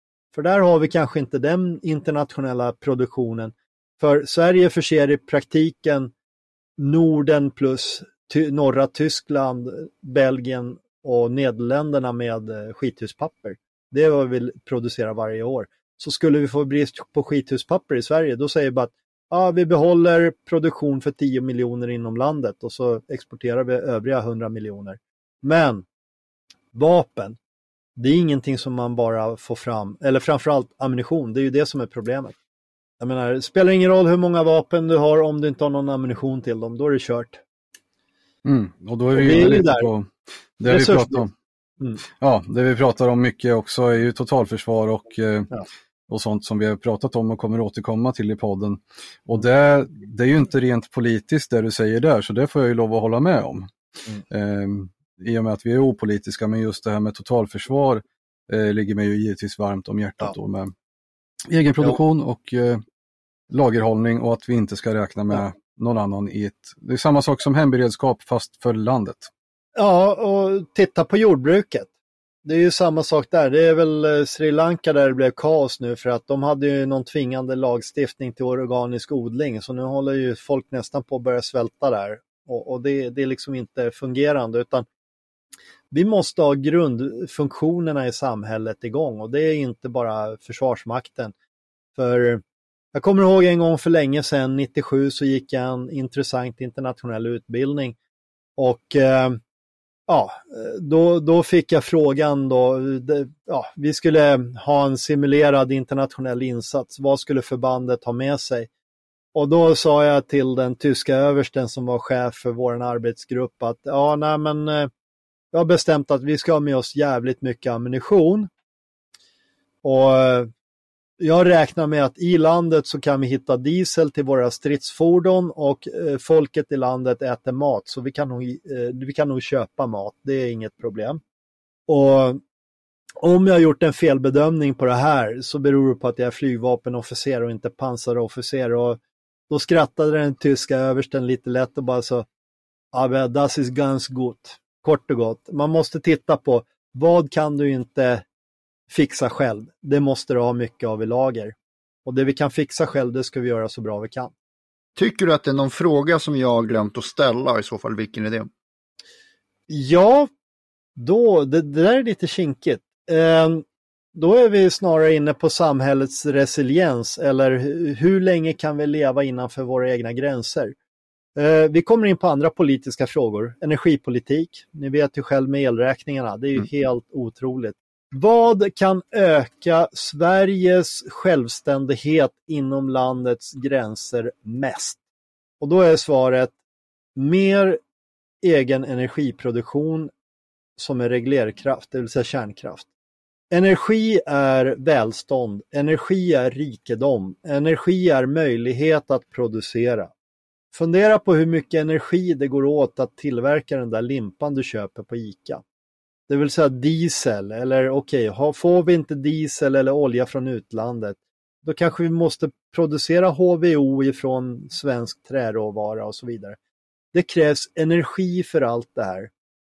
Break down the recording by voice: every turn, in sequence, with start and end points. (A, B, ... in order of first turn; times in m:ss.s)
0:00.3-0:06.1 A
0:06.8-0:25.8 A
0:26.7-0:27.4 A
0:28.0-0:32.3 A
0:33.0-0:37.4 A
0:38.4-0:40.1 B
0:39.1-0:39.9 A
0:40.6-0:41.3 B
0:40.7-0:41.2 A
0:42.2-0:45.5 B
0:46.1-0:53.7 B
0:54.3-1:00.7 B
1:01.5-1:02.8 B
1:03.5-1:09.3 B
1:09.8-1:11.9 A
1:12.4-1:24.9 A
1:25.9-1:31.3 A
1:32.0-1:32.4 A
1:32.9-1:38.0 A
1:38.6-1:39.4 A
1:40.1-1:48.7 A
1:49.3-1:54.9 A
1:55.5-1:58.5 A
1:59.8-2:00.5 A
2:01.2-2:11.2 A
2:11.9-2:12.4 A
2:13.2-2:19.0 A
2:19.5-2:22.2 A
2:22.9-2:28.2 A
2:28.9-2:31.6 A
2:32.0-2:34.3 A
2:35.0-2:38.5 C
2:39.7-2:40.3 A
2:41.0-2:43.6 A
2:44.1-2:50.7 A
2:51.4-3:05.0 A
3:05.6-3:06.5 A
3:07.2-3:07.8 A
3:08.4-3:10.1 A
3:10.8-3:12.9 A
3:13.5-3:20.1 A
3:20.7-3:25.6 A
3:26.3-3:36.6 A
3:37.1-3:39.3 A